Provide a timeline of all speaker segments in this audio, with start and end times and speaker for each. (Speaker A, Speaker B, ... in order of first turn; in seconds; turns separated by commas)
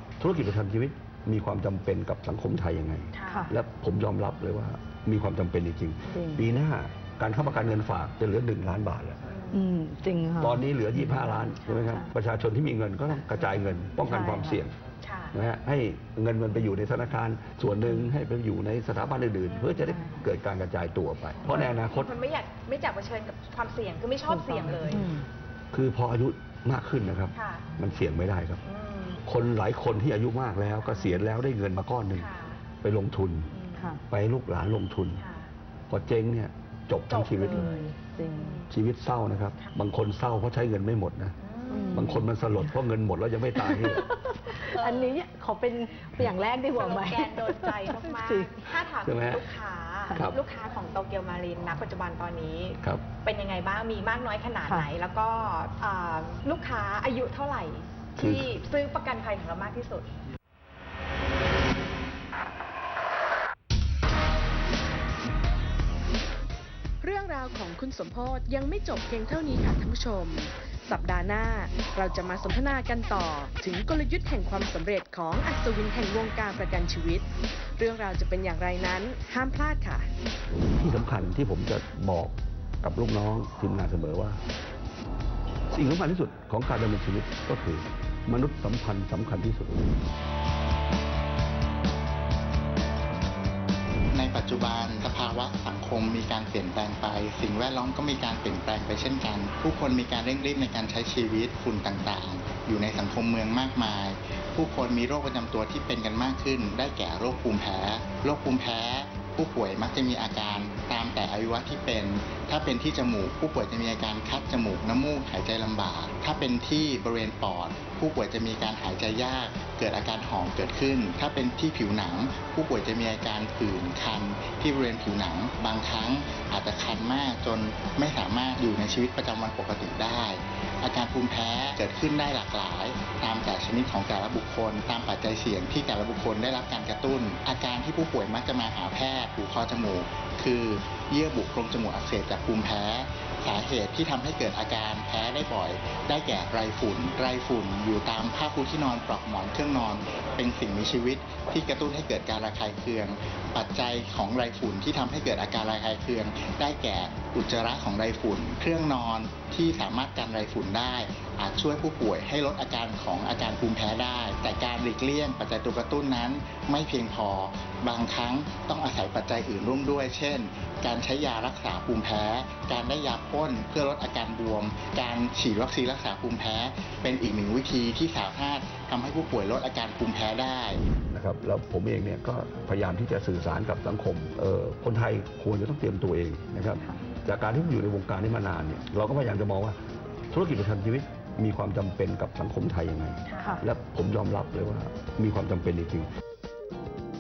Speaker A: 0.2-9.2, Speaker B: 3.1-3.5, Speaker C: 3.3-3.5, Speaker C: 6.1-6.4, Speaker B: 9.3-9.6, Speaker C: 9.5-12.1, Speaker A: 10.4-14.7, Speaker C: 14.0-14.6, Speaker B: 15.0-15.3, Speaker A: 15.3-22.1, Speaker B: 19.5-19.9, Speaker C: 19.9-20.2, Speaker B: 21.4-25.1, Speaker C: 24.3-25.2, Speaker A: 25.7-28.6, Speaker B: 27.3-27.8, Speaker B: 28.6-29.2, Speaker A: 29.2-32.3, Speaker B: 30.8-31.2, Speaker B: 32.1-32.6, Speaker A: 32.8-33.5, Speaker B: 33.5-33.8, Speaker C: 33.8-34.0, Speaker A: 34.1-35.2, Speaker B: 35.2-35.5, Speaker A: 35.9-37.7, Speaker B: 37.1-38.6, Speaker C: 37.5-38.6, Speaker A: 38.7-41.4, Speaker B: 41.4-42.1, Speaker C: 41.7-42.3, Speaker A: 41.9-44.1, Speaker C: 43.5-48.5, Speaker B: 44.6-45.1, Speaker B: 46.7-60.1, Speaker A: 49.0-49.5, Speaker A: 58.2-58.5, Speaker D: 67.0-80.1, Speaker A: 80.8-84.4, Speaker A: 85.7-89.9, Speaker E: 94.1-180.9, Speaker A: 181.1-189.8, Speaker A: 190.3-196.1, Speaker B: 193.3-193.6